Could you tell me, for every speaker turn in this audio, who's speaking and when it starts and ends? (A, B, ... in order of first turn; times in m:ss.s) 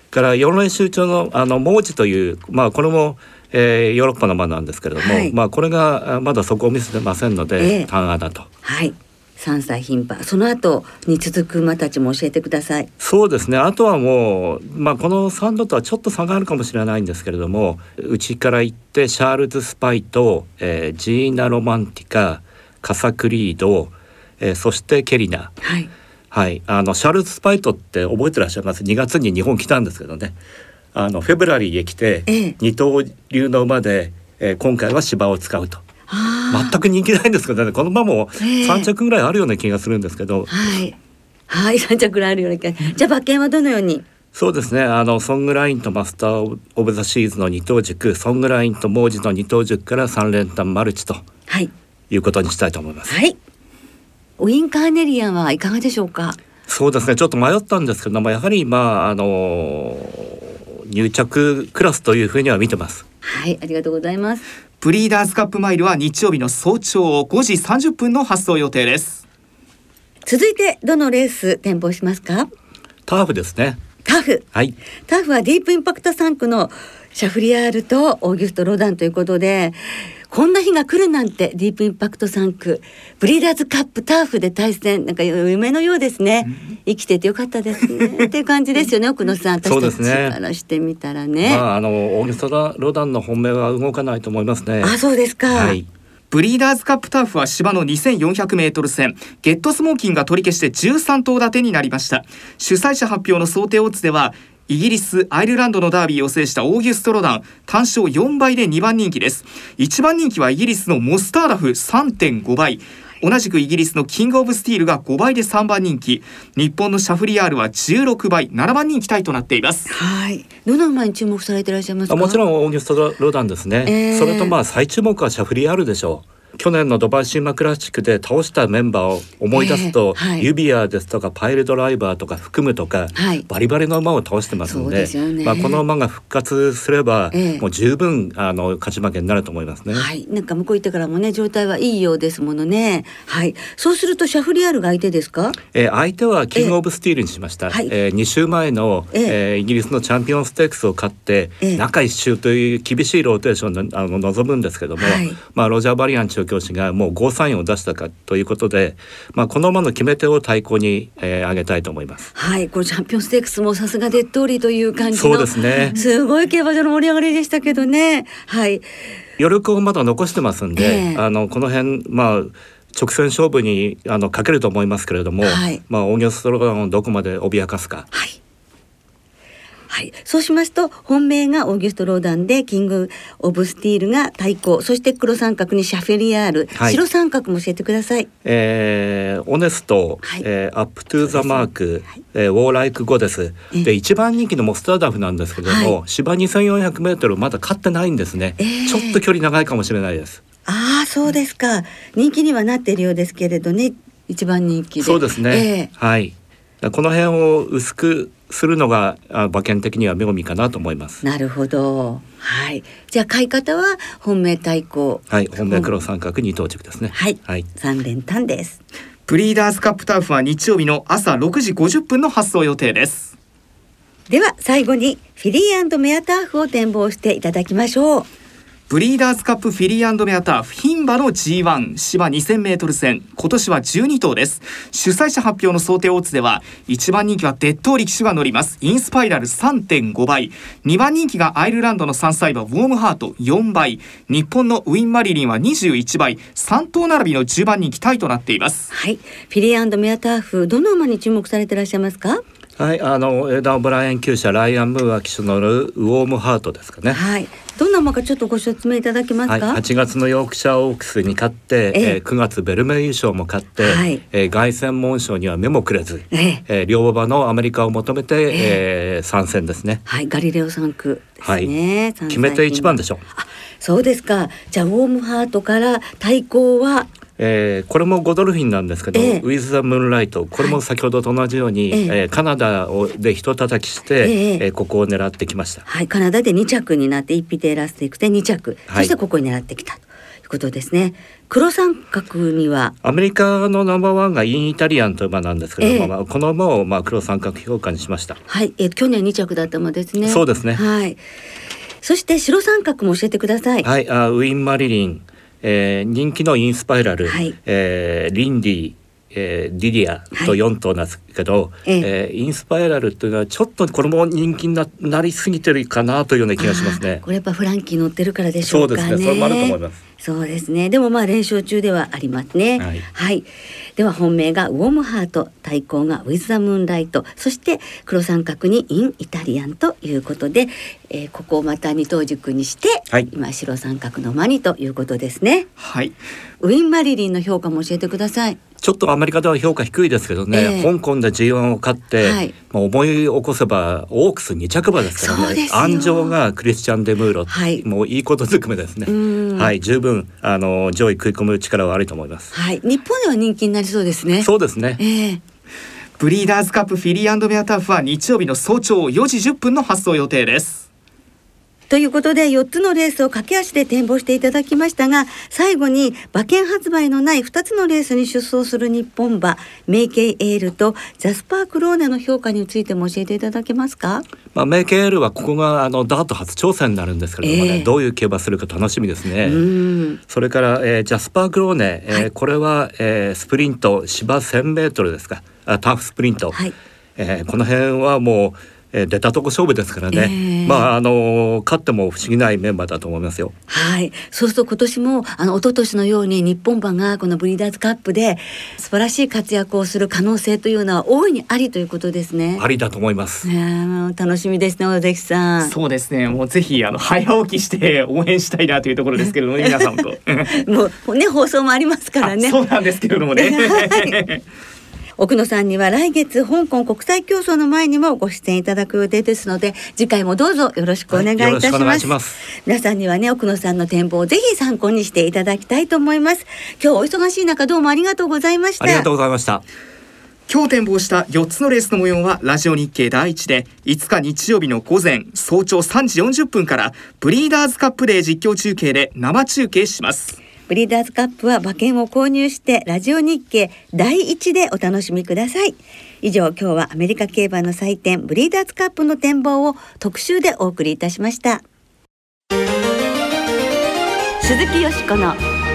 0:00.1-0:08.5 A
0:05.0-0:05.3 B
0:07.6-0:07.9 B
0:08.6-0:12.9 B
0:13.0-0:25.6 A
0:25.6-0:25.9 B
0:26.3-0:30.4 A
0:30.9-0:35.8 A
0:32.3-0:32.6 B
0:36.1-0:36.8 B
0:36.5-0:40.5 A
0:38.4-0:38.9 B
0:40.5-0:41.0 B
0:41.5-0:44.0 B
0:44.3-0:51.2 A
0:52.1-0:53.1 A
0:53.1-0:53.4 B
0:54.4-0:56.4 B
0:56.7-1:03.0 A
1:03.2-1:04.4 B
1:04.8-1:09.2 C
1:10.2-1:12.5 B
1:13.1-1:13.8 A
1:14.0-1:14.4 B
1:15.1-1:31.6 B
1:29.6-1:30.4 A
1:31.4-1:35.0 A
1:34.8-1:35.8 B
1:35.5-1:35.9 A
1:36.3-1:59.9 C
1:59.9-2:02.4 B
2:02.1-2:20.1 A
2:03.8-2:04.5 B
2:09.5-2:10.5 B
2:13.1-2:13.5 B
2:14.6-2:15.8 B
2:17.3-2:17.6 B
2:19.9-2:25.6 B
2:25.7-2:42.3 A
2:35.0-2:35.4 B
2:42.4-2:48.8 B
2:45.1-2:46.0 A
2:49.4-2:58.1 A
2:50.8-2:51.2 B
2:55.4-2:55.8 B
2:58.1-2:58.4 B
2:59.9-3:08.3 B
3:08.4-3:20.4 A
3:15.6-3:15.9 B
3:18.6-3:19.2 B
3:20.6-3:25.9 B
3:25.0-3:31.2 A
3:31.2-3:35.9 B
3:35.3-3:37.6 A
3:37.1-3:38.8 B
3:39.3-3:43.3 C
3:44.3-3:48.3 B
3:48.9-4:08.9 C
4:08.9-4:12.4 B
4:12.8-4:17.2 A
4:17.1-4:19.8 B
4:19.5-4:30.0 A
4:21.9-4:22.2 B
4:23.8-4:24.2 B
4:26.3-4:26.6 B
4:28.5-4:28.8 B
4:30.0-4:37.1 B
4:31.4-4:31.7 A
4:32.3-4:33.2 A
4:37.4-4:45.8 A
4:39.1-4:39.4 B
4:44.2-4:44.6 B
4:45.9-4:52.9 B
4:48.9-4:49.1 A
4:53.0-4:58.4 A
4:55.8-4:56.1 B
4:58.5-5:01.2 B
5:00.2-5:00.8 A
5:02.0-5:03.9 B
5:03.8-5:17.2 A
5:07.2-5:07.5 B
5:16.6-5:23.5 B
5:18.7-5:20.0 A
5:22.8-5:23.0 A
5:24.0-5:35.7 B
5:35.8-5:36.2 C
5:36.6-5:38.6 B
5:38.8-5:52.5 A
5:40.5-5:40.9 B
5:42.2-5:42.5 B
5:45.2-5:46.4 B
5:47.5-5:47.8 B
5:49.1-5:49.7 B
5:52.5-5:55.4 B
5:54.4-5:55.0 A
5:56.2-6:00.9 C
6:01.9-6:14.2 B
6:14.5-6:19.6 A
6:17.4-6:17.9 B
6:19.4-6:20.2 B
6:20.3-6:26.6 A
6:27.2-6:33.5 A
6:30.1-6:30.9 B
6:33.7-6:42.6 B
6:42.6-6:43.5 A
6:43.4-6:45.7 B
6:45.6-6:50.5 C
6:49.6-6:49.9 B
6:50.5-6:52.6 B
6:52.2-6:54.4 C
6:53.4-6:54.2 B
6:55.2-7:02.1 B
7:01.1-7:02.4 A
7:02.6-7:09.1 B
7:08.8-7:09.6 A
7:10.5-7:20.4 C
7:20.7-7:31.6 B
7:34.4-7:35.4 B